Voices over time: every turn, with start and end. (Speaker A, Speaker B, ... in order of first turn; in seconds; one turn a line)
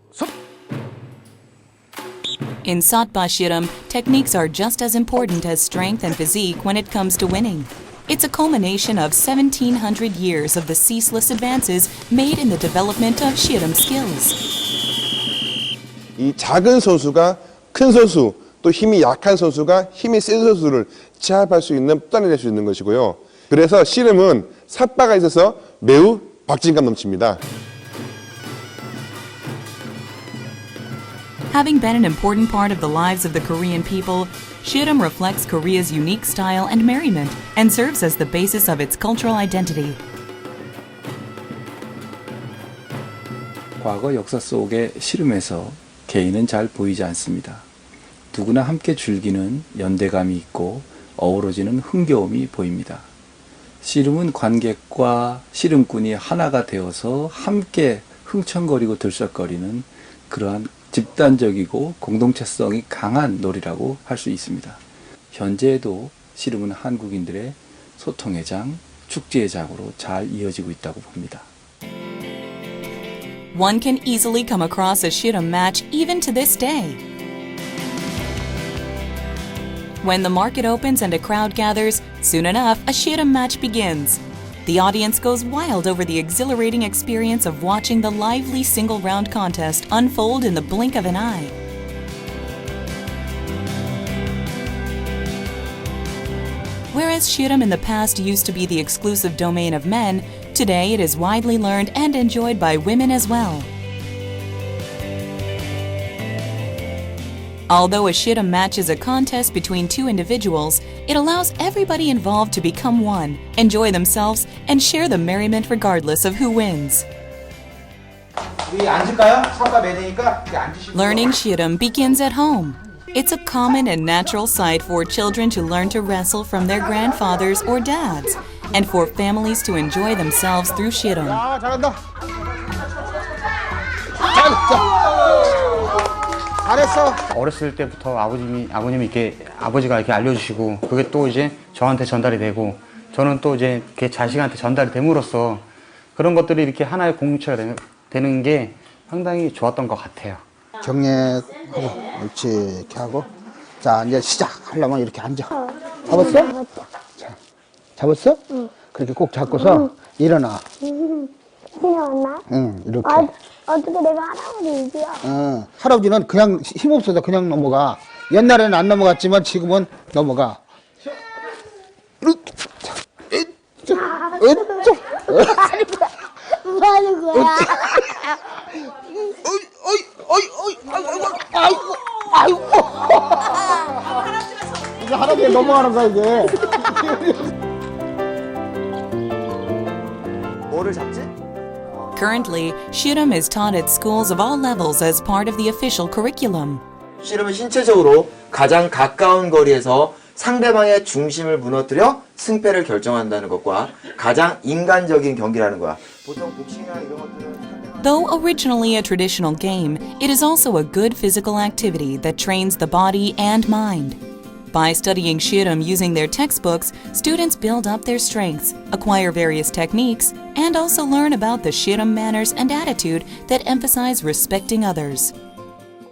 Speaker A: 2.6-14.4
Speaker B: 16.2-27.4
Speaker A: 31.5-40.0
Speaker C: 43.8-47.6
Speaker C: 48.3-53.0
Speaker C: 53.8-64.8
Speaker C: 65.3-71.5
Speaker A: 73.5-77.0
Speaker A: 80.0-91.5
Speaker A: 96.9-103.7
Speaker A: 107.7-117.1
Speaker D: 118.7-121.0
Speaker A: 120.9-131.4
Speaker D: 131.3-131.9
Speaker D: 134.2-135.9
Speaker D: 136.6-137.2
Speaker E: 137.3-150.4
Speaker D: 150.8-153.3
Speaker D: 153.8-155.5
Speaker D: 156.1-156.6
Speaker F: 156.1-156.9
Speaker D: 158.0-160.7
Speaker F: 159.5-159.9
Speaker F: 161.0-162.4
Speaker D: 162.5-163.3
Speaker F: 163.1-165.2
Speaker D: 165.2-170.6
Speaker D: 173.3-175.8
Speaker F: 174.2-174.5
Speaker F: 176.7-177.7
Speaker D: 177.3-177.9
Speaker D: 179.4-183.6
Speaker D: 185.0-187.2
Speaker G: 190.7-191.3
Speaker A: 192.2-196.8
Speaker G: 197.2-208.3
Speaker A: 208.0-214.2
Speaker A: 214.7-225.3